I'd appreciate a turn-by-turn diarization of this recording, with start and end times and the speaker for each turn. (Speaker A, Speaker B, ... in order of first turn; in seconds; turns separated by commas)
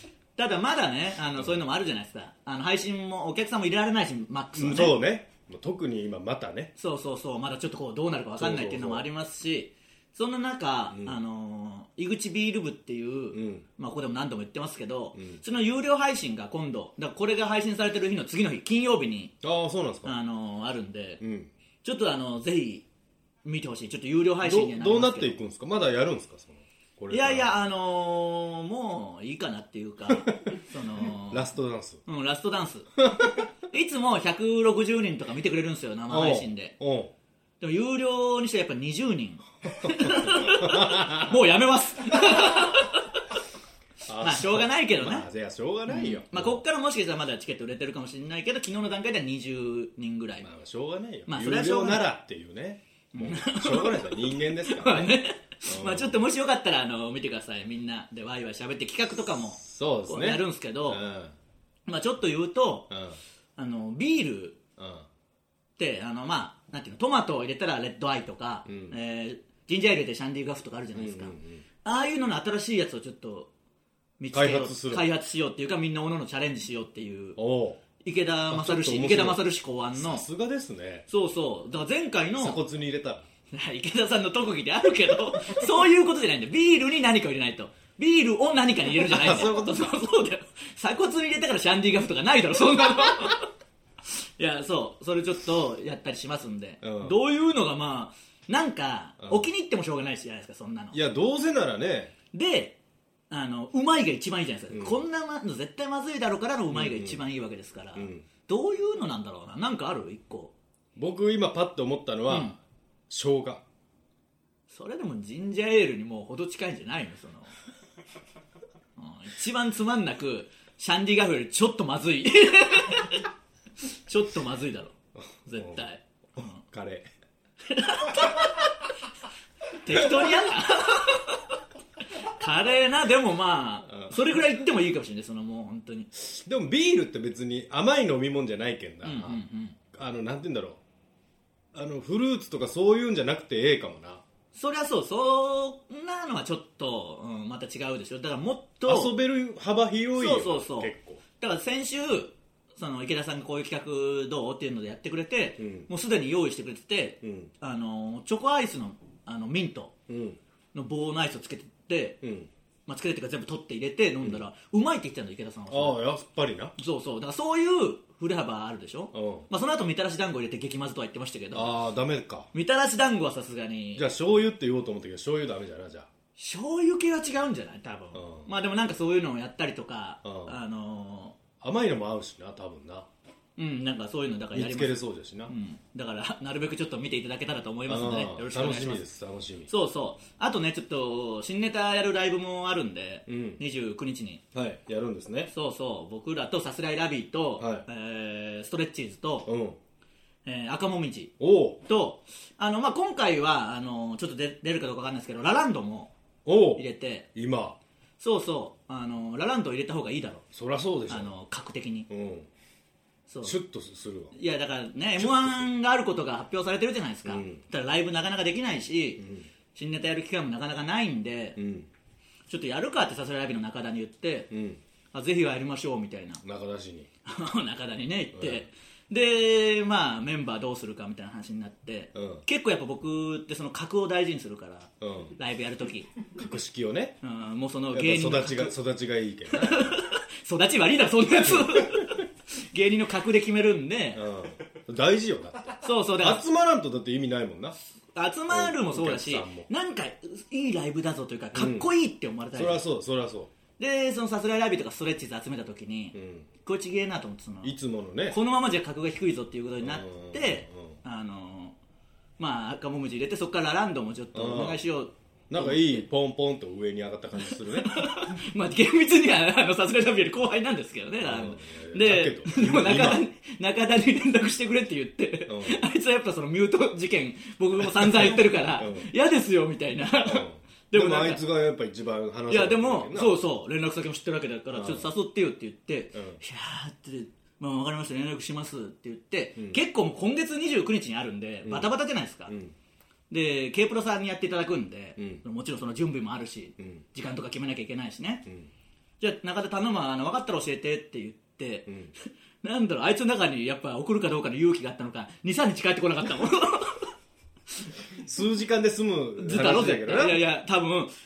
Speaker A: 0.4-5.0, Speaker B: 4.5-6.7, Speaker A: 6.8-19.3, Speaker B: 8.4-9.1, Speaker B: 10.9-11.2, Speaker B: 13.3-13.7, Speaker B: 15.2-15.4, Speaker B: 19.4-20.1, Speaker A: 20.0-21.2, Speaker B: 21.2-21.5, Speaker A: 21.8-22.9, Speaker A: 23.4-25.3, Speaker B: 24.4-27.5, Speaker A: 27.1-31.5, Speaker B: 30.1-30.5, Speaker B: 31.1-32.0, Speaker A: 32.0-33.0, Speaker B: 33.0-33.5, Speaker A: 33.7-36.8, Speaker B: 36.1-37.1, Speaker A: 37.6-43.4, Speaker B: 39.8-41.4, Speaker B: 44.1-46.6, Speaker A: 44.2-45.3, Speaker A: 45.9-50.5, Speaker B: 50.4-55.1, Speaker A: 51.3-52.1, Speaker A: 53.1-61.0, Speaker B: 55.7-56.2, Speaker B: 59.6-61.4, Speaker A: 61.9-62.9, Speaker B: 62.9-63.2, Speaker A: 63.6-64.6, Speaker B: 64.8-65.1, Speaker A: 65.8-73.5, Speaker B: 68.7-69.0, Speaker B: 71.0-71.6, Speaker A: 74.2-77.4, Speaker B: 74.3-75.1, Speaker B: 77.4-77.8, Speaker A: 78.0-80.2, Speaker B: 78.5-81.1, Speaker A: 81.1-82.6, Speaker B: 82.4-83.3, Speaker A: 83.5-93.5, Speaker B: 88.9-89.7, Speaker A: 94.4-101.0, Speaker B: 96.8-97.2, Speaker B: 99.2-99.5, Speaker B: 100.9-102.1, Speaker A: 102.3-102.8, Speaker A: 103.3-110.5, Speaker B: 104.7-105.0, Speaker B: 106.7-107.2, Speaker B: 108.0-108.3, Speaker B: 111.0-112.5, Speaker A: 112.3-112.6, Speaker B: 113.1-113.6, Speaker A: 114.7-117.5, Speaker A: 119.0-123.3, Speaker A: 124.1-124.9, Speaker A: 125.5-126.6, Speaker B: 125.5-127.1, Speaker A: 127.7-128.7, Speaker A: 129.7-131.5, Speaker A: 132.1-136.1, Speaker B: 133.9-134.2, Speaker B: 136.2-139.4, Speaker A: 139.0-139.8, Speaker B: 139.9-140.8, Speaker B: 141.7-144.2, Speaker A: 144.5-149.1, Speaker B: 148.8-151.2, Speaker A: 150.2-159.9, Speaker B: 155.6-155.9, Speaker B: 157.2-157.5, Speaker B: 160.1-160.4, Speaker A: 160.7-162.2, Speaker B: 162.2-162.5, Speaker A: 162.9-166.0, Speaker B: 165.7-166.8, Speaker A: 166.8-171.7, Speaker B: 169.1-169.5, Speaker B: 171.5-172.5, Speaker A: 172.5-174.1, Speaker B: 173.9-176.1, Speaker A: 176.4-181.4, Speaker B: 178.1-178.5, Speaker B: 180.2-180.6, Speaker B: 181.6-183.1, Speaker A: 183.6-189.0, Speaker B: 184.5-185.5, Speaker B: 187.9-189.7, Speaker A: 189.7-194.4, Speaker B: 193.3-193.6, Speaker B: 194.5-195.5, Speaker A: 195.5-199.5, Speaker B: 197.6-197.9, Speaker B: 199.5-199.8, Speaker A: 200.4-206.1, Speaker B: 201.4-201.8, Speaker B: 206.4-206.8, Speaker A: 206.8-207.3, Speaker B: 207.3-207.8, Speaker A: 208.2-210.4, Speaker B: 210.5-211.3, Speaker A: 211.1-212.1, Speaker B: 212.1-212.5, Speaker A: 213.3-213.6, Speaker B: 213.4-214.3, Speaker A: 214.3-219.2, Speaker B: 215.2-215.7, Speaker B: 217.2-217.6, Speaker B: 219.2-219.5, Speaker A: 219.7-221.6, Speaker B: 221.6-221.9, Speaker A: 222.5-224.5, Speaker B: 224.5-224.8, Speaker A: 225.1-226.4, Speaker B: 226.4-227.1, Speaker A: 227.2-236.1, Speaker B: 228.3-228.7, Speaker B: 232.2-232.4, Speaker B: 235.0-235.3, Speaker B: 236.3-237.2, Speaker A: 237.2-238.7, Speaker B: 237.9-239.9, Speaker A: 239.5-244.2, Speaker B: 241.4-242.2, Speaker B: 244.2-247.8, Speaker A: 245.8-246.4, Speaker A: 248.1-252.8, Speaker B: 248.5-249.7, Speaker B: 251.5-251.9, Speaker B: 252.5-253.5, Speaker A: 253.8-257.8, Speaker B: 256.1-256.5, Speaker B: 257.6-258.4, Speaker A: 258.3-261.8, Speaker B: 259.8-261.0, Speaker A: 262.4-266.1, Speaker B: 264.3-264.8, Speaker B: 265.5-268.0, Speaker A: 267.6-281.4, Speaker B: 271.2-273.2, Speaker B: 275.5-275.8, Speaker B: 277.9-279.1, Speaker B: 280.3-283.4, Speaker A: 282.5-292.5, Speaker B: 284.7-285.1, Speaker B: 286.1-286.4, Speaker B: 291.6-291.9, Speaker B: 292.5-292.8, Speaker A: 293.3-298.4, Speaker B: 295.2-295.4, Speaker B: 296.8-297.0, Speaker B: 298.5-298.7, Speaker A: 299.2-301.9, Speaker B: 301.9-302.1, Speaker A: 302.6-307.1, Speaker B: 308.1-310.4, Speaker A: 309.4-311.1